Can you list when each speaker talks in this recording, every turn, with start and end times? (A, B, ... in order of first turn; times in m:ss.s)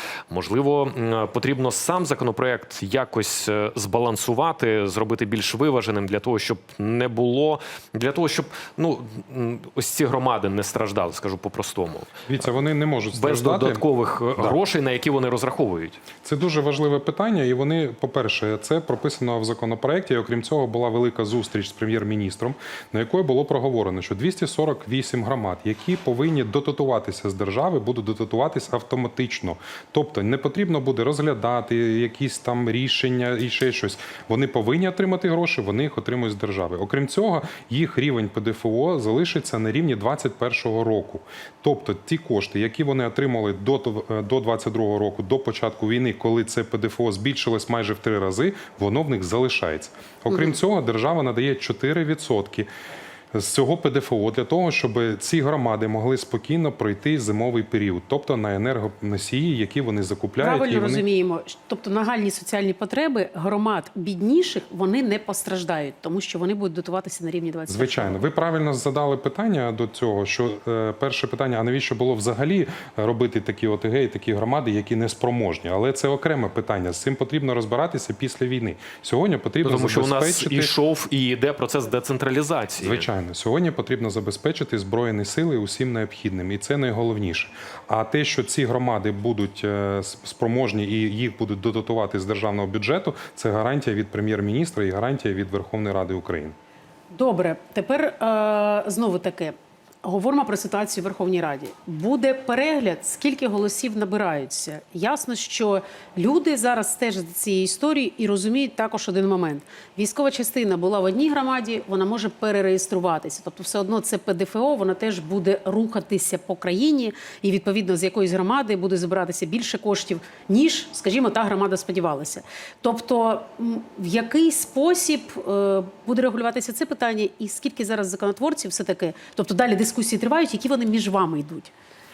0:00.3-0:12.2 A
0:12.3-0:13.8 B
0:13.1-0:16.0 A
0:16.2-0:52.7 B
0:53.3-1:01.0 B
1:00.4-1:08.2 C
1:07.7-1:20.7 B
1:19.6-1:23.1 A
1:22.8-1:36.5 B
1:37.1-2:11.7 C